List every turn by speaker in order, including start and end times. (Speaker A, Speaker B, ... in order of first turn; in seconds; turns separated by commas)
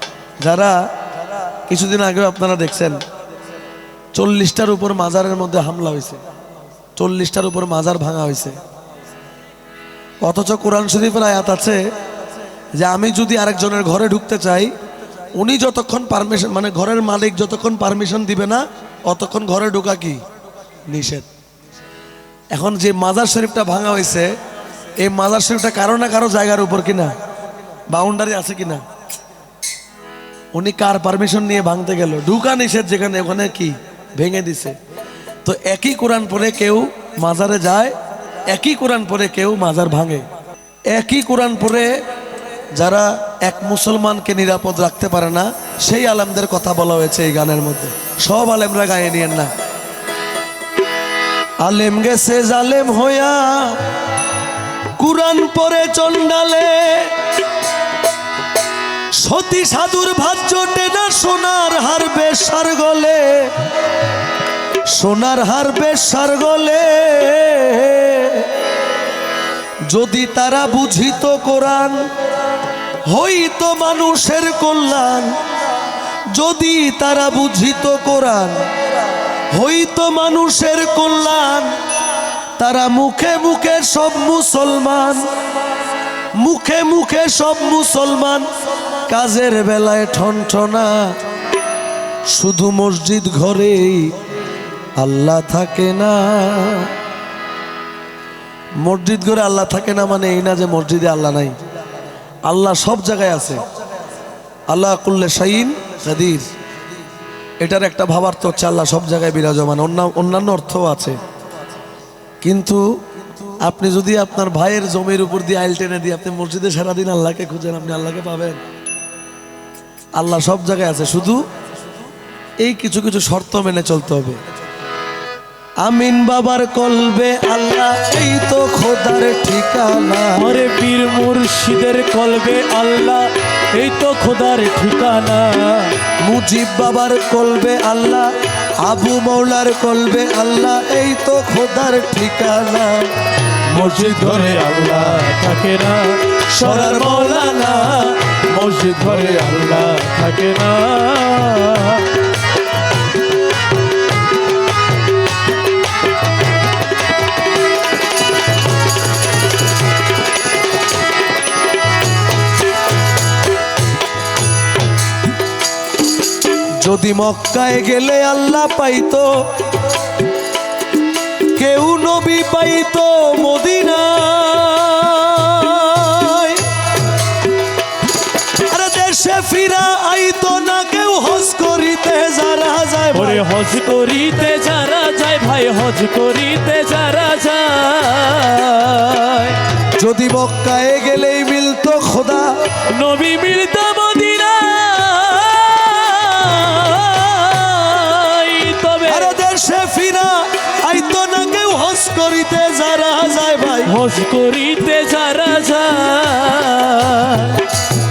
Speaker A: 0.4-0.8, Speaker A: 1.7-3.0, Speaker A: 4.1-6.2, Speaker A: 7.0-8.6, Speaker A: 10.2-11.8, Speaker A: 12.8-14.7, Speaker A: 15.3-20.2, Speaker A: 20.9-21.3, Speaker A: 22.5-24.3, Speaker A: 25.0-27.1, Speaker A: 27.9-28.8, Speaker A: 30.5-34.8, Speaker A: 35.4-38.0, Speaker A: 38.5-40.2, Speaker A: 40.9-42.0, Speaker A: 42.7-49.5, Speaker A: 51.6-53.8, Speaker A: 55.0-57.1, Speaker A: 59.1-63.5, Speaker A: 64.9-68.5, Speaker A: 69.9-72.1, Speaker A: 73.1-75.4, Speaker A: 76.3-78.6, Speaker A: 79.5-81.7, Speaker A: 82.6-85.3, Speaker A: 86.4-88.5, Speaker A: 89.1-91.2, Speaker A: 92.3-94.2, Speaker A: 95.0-96.9, Speaker A: 98.8-101.5, Speaker A: 102.5-103.6, Speaker A: 104.7-106.5, Speaker A: 107.6-111.2, Speaker A: 112.4-112.8, Speaker A: 113.6-118.6, Speaker A: 120.2-121.4, Speaker A: 122.6-124.4, Speaker A: 125.8-130.4, Speaker B: 130.3-135.9, Speaker A: 136.2-138.3, Speaker A: 138.8-143.1, Speaker B: 143.7-152.2, Speaker A: 146.5-147.8, Speaker A: 166.8-169.6, Speaker A: 171.5-176.7, Speaker A: 178.6-183.4, Speaker B: 183.1-189.6, Speaker A: 189.9-192.6, Speaker B: 192.9-199.4, Speaker A: 199.1-203.9, Speaker B: 203.8-207.7